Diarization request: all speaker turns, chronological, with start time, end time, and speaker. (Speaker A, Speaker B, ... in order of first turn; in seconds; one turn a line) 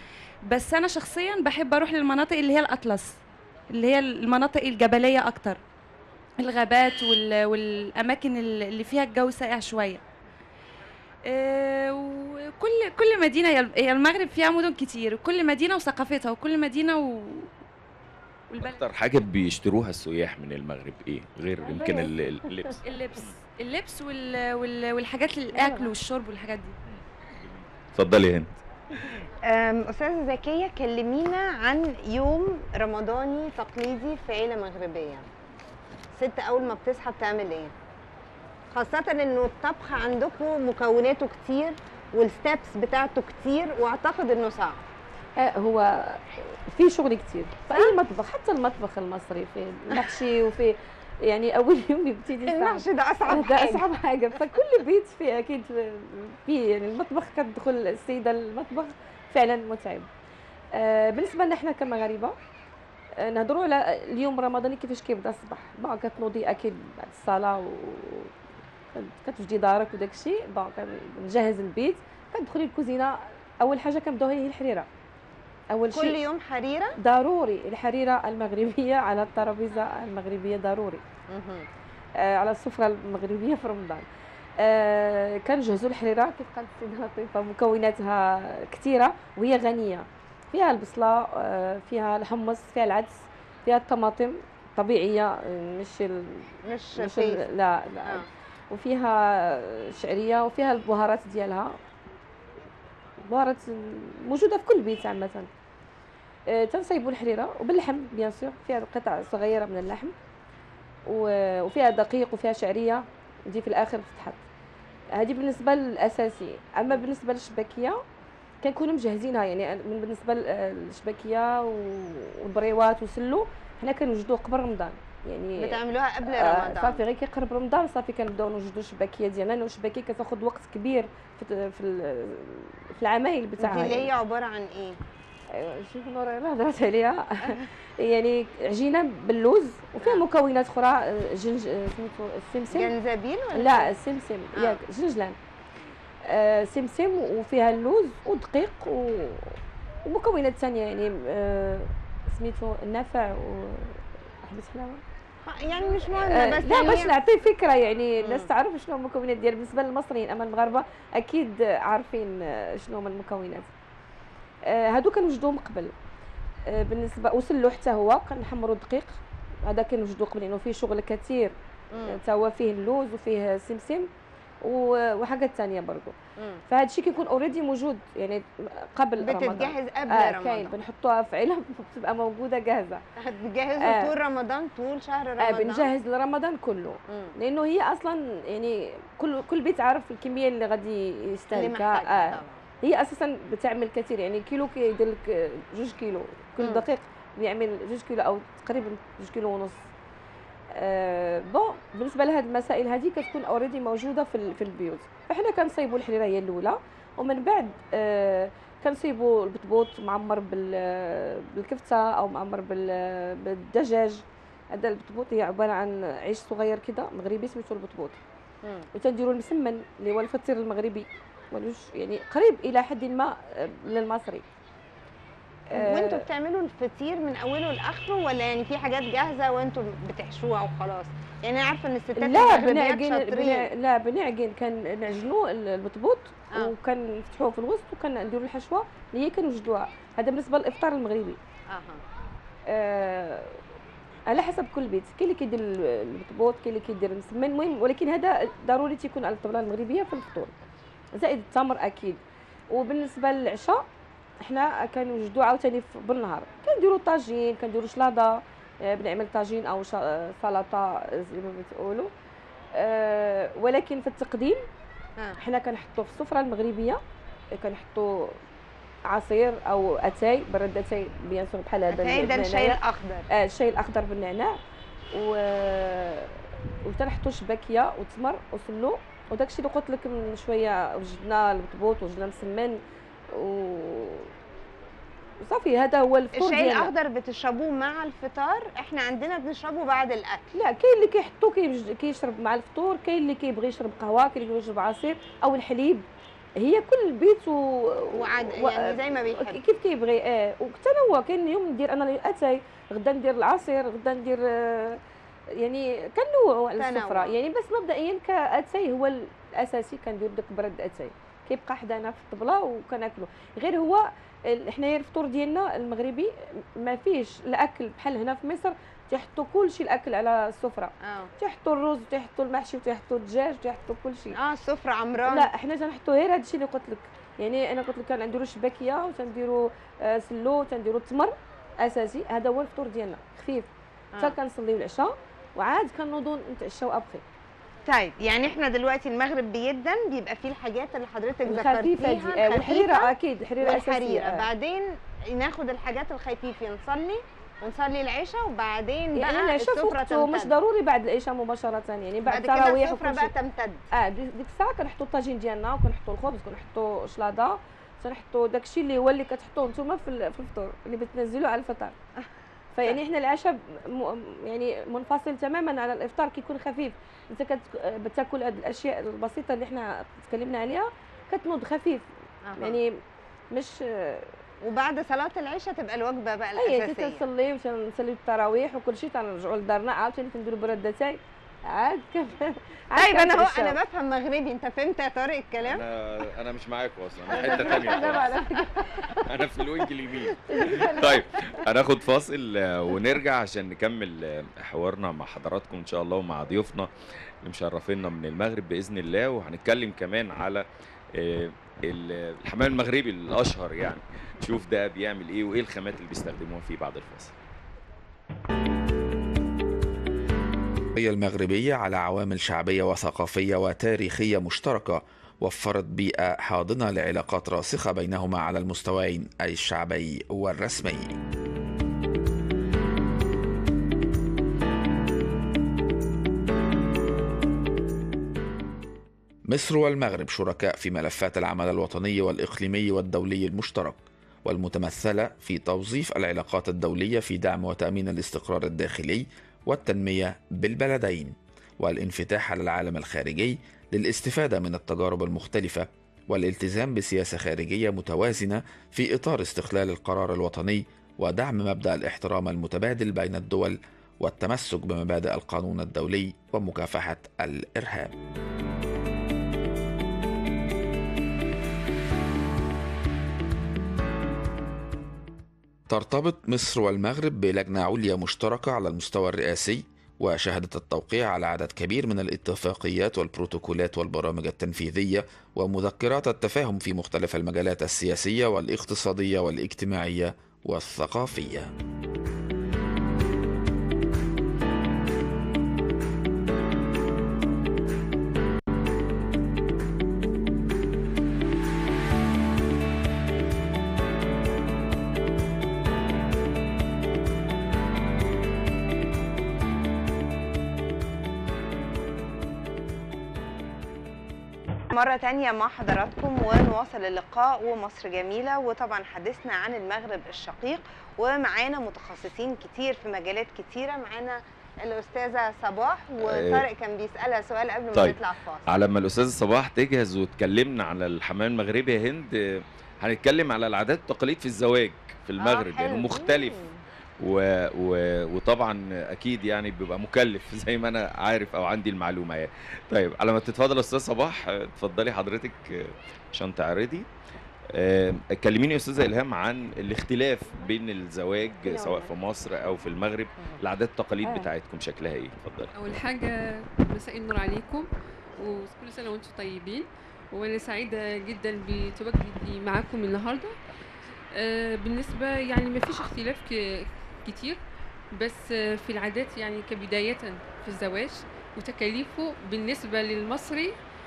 Speaker A: 0.5-3.2
Speaker A: 3.7-5.6
Speaker A: 6.4-10.0
Speaker A: 11.2-17.5
Speaker A: 18.5-18.8
Speaker B: 18.6-23.3
Speaker C: 21.6-22.1
Speaker A: 22.9-26.8
Speaker C: 25.6-25.9
Speaker B: 26.9-28.5
Speaker D: 29.5-35.2
Speaker D: 36.1-37.7
Speaker D: 38.7-44.8
Speaker C: 45.4-60.1
Speaker D: 52.5-53.9
Speaker C: 60.8-62.4
Speaker C: 63.2-68.3
Speaker C: 68.9-74.9
Speaker C: 75.7-76.2
Speaker D: 75.9-77.0
Speaker C: 77.0-81.0
Speaker D: 81.3-81.7
Speaker C: 82.2-84.1
Speaker C: 84.6-101.8
Speaker D: 96.7-97.4
Speaker C: 103.3-105.5
Speaker C: 106.5-110.1
Speaker C: 111.1-114.4
Speaker C: 115.1-118.0
Speaker C: 118.6-134.1
Speaker D: 125.6-127.0
Speaker D: 133.6-135.0
Speaker C: 135.5-142.9
Speaker D: 142.7-143.9
Speaker C: 143.5-145.4
Speaker C: 146.3-155.0
Speaker D: 155.4-157.2
Speaker C: 156.2-163.7
Speaker D: 158.2-158.5
Speaker C: 164.7-165.9
Speaker C: 166.7-171.6
Speaker D: 171.9-172.2
Speaker C: 172.1-174.1
Speaker C: 174.6-176.1
Speaker C: 176.7-183.0
Speaker D: 179.2-180.8
Speaker D: 183.2-185.9
Speaker C: 183.8-184.1
Speaker C: 185.4-199.8
Speaker D: 187.1-187.3
Speaker D: 191.5-192.6
Speaker C: 200.8-218.2
Speaker D: 218.6-218.9
Speaker C: 218.9-224.4
Speaker C: 225.7-226.3
Speaker D: 225.7-233.7
Speaker C: 232.2-241.4
Speaker D: 241.7-242.0
Speaker C: 242.7-243.6
Speaker C: 244.3-250.5
Speaker C: 251.1-253.9
Speaker C: 254.4-262.1
Speaker C: 262.8-264.6
Speaker C: 265.4-267.0
Speaker C: 267.6-268.4
Speaker C: 269.1-272.8
Speaker D: 271.9-273.2
Speaker C: 273.3-274.6
Speaker C: 275.1-282.8
Speaker C: 283.3-284.3
Speaker C: 285.4-286.9
Speaker D: 286.3-290.5
Speaker C: 290.5-296.1
Speaker C: 296.6-305.0
Speaker D: 298.1-299.6
Speaker C: 305.6-324.4
Speaker D: 306.8-307.4
Speaker D: 321.0-321.3
Speaker D: 324.3-325.5
Speaker C: 325.3-333.7
Speaker C: 334.2-337.2
Speaker D: 337.9-350.5
Speaker C: 341.5-344.5
Speaker C: 349.1-353.3
Speaker D: 352.2-353.8
Speaker C: 353.9-361.9
Speaker C: 362.8-373.0
Speaker D: 372.5-372.8
Speaker C: 373.5-374.3
Speaker D: 374.6-377.2
Speaker C: 376.6-383.8
Speaker D: 383.0-385.8
Speaker B: 385.6-388.3
Speaker C: 387.3-388.8
Speaker D: 387.3-389.1
Speaker B: 389.2-396.9
Speaker D: 390.5-391.2
Speaker B: 397.4-407.4
Speaker E: 410.9-421.1
Speaker E: 429.5-458.1
Speaker E: 465.9-481.7
Speaker D: 504.9-518.7
Speaker B: 516.2-516.6
Speaker B: 518.7-526.6
Speaker D: 525.4-526.8
Speaker B: 527.2-537.1
Speaker B: 537.7-545.7
Speaker C: 541.7-542.1
Speaker F: 545.8-553.6
Speaker F: 554.4-557.6
Speaker F: 558.2-563.7